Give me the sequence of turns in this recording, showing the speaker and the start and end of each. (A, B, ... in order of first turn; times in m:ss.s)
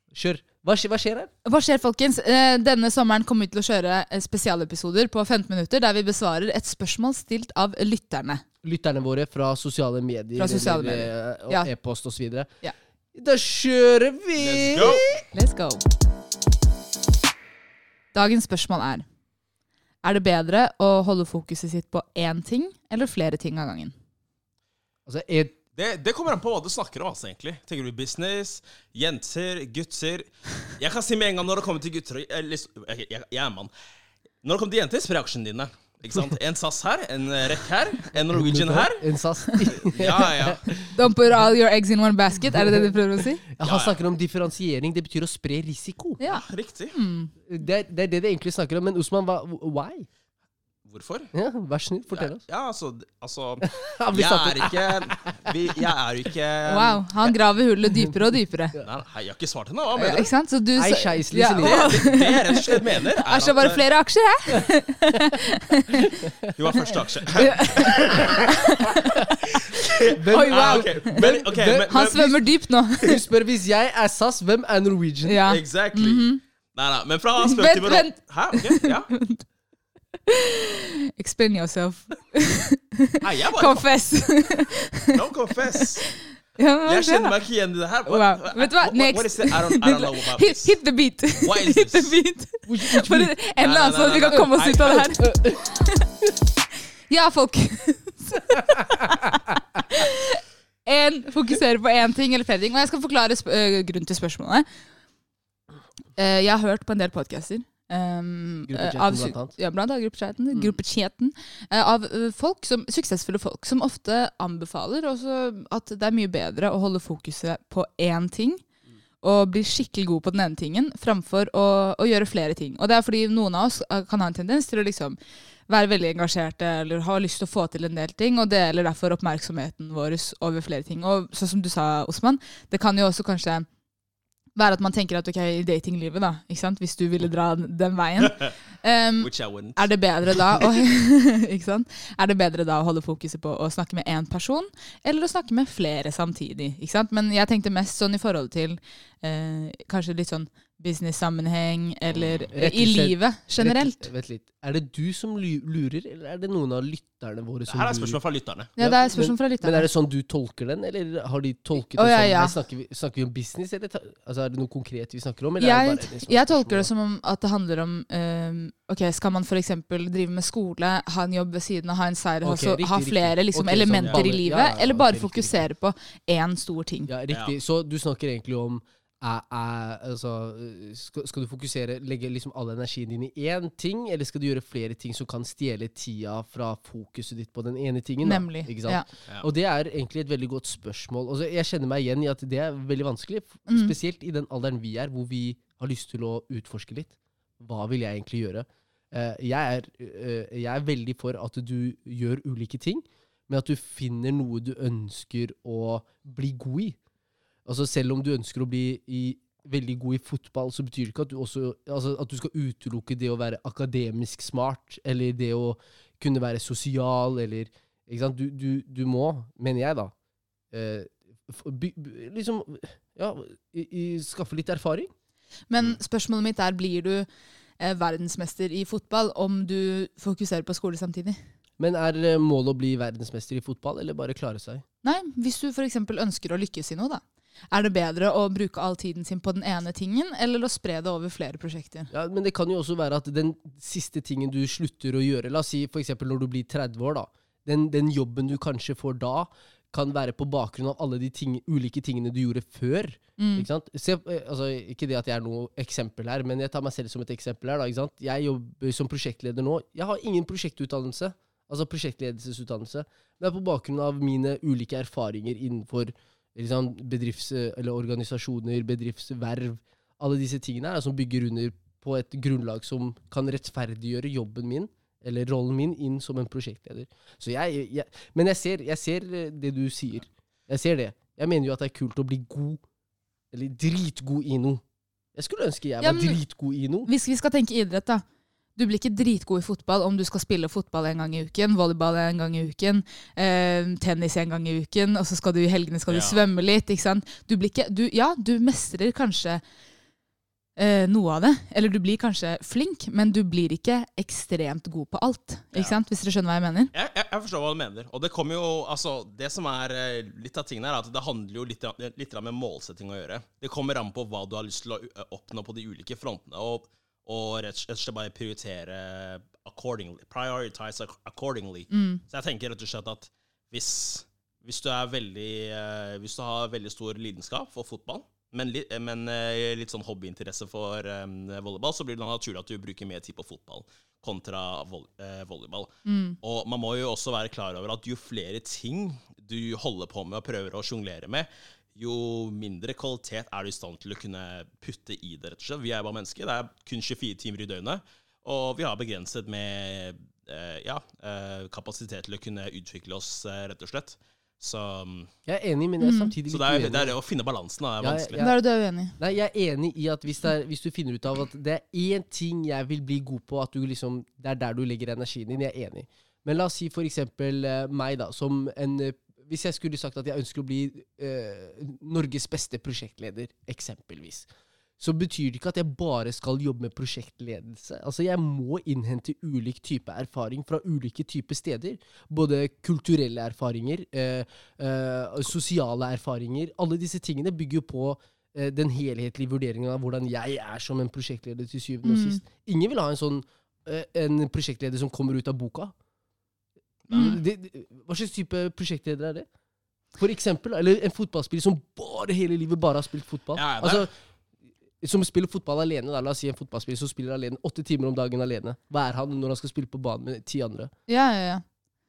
0:00.1-0:01.3 A
0:01.4-0:08.4 B
0:08.6-0:12.5 A
0:10.4-0:11.7 B
0:13.2-0:15.2 A
0:14.4-0:15.2 C
0:15.3-0:15.8 B
0:18.1-0:19.0 B
0:20.0-0:23.9 B
0:25.1-0:25.6 A
0:25.8-0:33.7 C
0:34.4-0:39.1 C
0:38.3-0:40.9 A
0:39.7-0:40.6 C
0:40.9-0:43.4 B
0:43.5-0:46.2 A
0:43.6-0:44.0 C
0:46.2-0:47.3 B
0:46.3-0:47.0 C
0:47.4-0:50.1 A
0:50.9-0:51.3 C
0:51.3-0:52.4 A
0:52.1-0:57.4 C
0:53.6-0:55.3 A
0:56.7-0:58.8 B
0:57.9-0:58.8 A
0:58.8-1:00.3 C
1:00.0-1:06.1 B
1:00.8-1:02.0 A
1:01.6-1:03.8 C
1:06.5-1:08.3 C
1:07.3-1:09.2 B
1:09.8-1:12.5 C
1:10.1-1:11.3 B
1:10.2-1:12.0 A
1:11.9-1:13.2 B
1:13.0-1:15.4 A
1:15.2-1:16.4 B
1:15.5-1:19.1 C
1:17.4-1:19.4 B
1:21.2-1:25.1 B
1:23.2-1:23.9 C
1:25.1-1:26.2 C
1:26.0-1:27.4 B
1:26.8-1:30.8 C
1:28.1-1:36.1 B
1:31.4-1:32.2 C
1:32.7-1:33.3 A
1:33.5-1:35.1 C
1:35.2-1:35.6 A
1:37.1-1:44.7 B
1:46.2-1:58.6 B
1:48.7-1:49.6 A
1:59.2-2:05.2 B
2:05.7-2:13.7 B
2:14.6-2:34.1 B
2:18.3-2:18.5 C
2:19.2-2:20.6 C
2:32.1-2:32.4 C
2:32.5-2:38.2 A
2:37.7-2:38.7 C
2:38.8-2:39.9 B
2:38.8-2:46.9 A
2:41.9-2:42.6 B
2:45.6-2:57.1 B
2:52.4-2:55.6 A
2:57.1-3:27.0 A
2:57.3-2:57.6 C
3:08.2-3:09.1 B
3:13.7-3:14.0 B
3:27.7-3:40.1 A
3:40.7-3:45.1 A
3:45.7-3:47.3 B
3:47.8-3:51.4 B
3:51.8-3:54.8 A
3:55.0-4:02.1 B
4:02.1-4:42.8 A
4:13.4-4:13.7 B
4:43.5-4:44.8 A
4:45.4-4:47.1 A
4:46.0-4:46.4 B
4:47.0-4:48.2 B
4:48.8-4:59.6 B
4:56.1-4:56.4 C
5:00.8-5:06.9 B
5:05.7-5:06.0 C
5:06.9-5:55.3 C
5:21.9-5:22.2 B
5:36.0-5:36.4 B
5:55.5-5:57.2 A
5:56.0-5:56.3 B
5:56.5-5:58.4 C
5:58.0-6:14.5 A
5:58.4-5:59.2 B
6:15.0-6:35.9 A
6:32.0-6:32.4 B
6:37.1-6:37.4 C
6:37.1-6:39.5 A
6:37.1-6:37.4 B
6:40.2-6:44.1 A
6:43.5-6:44.1 C
6:45.0-6:50.9 A
6:51.1-6:51.6 B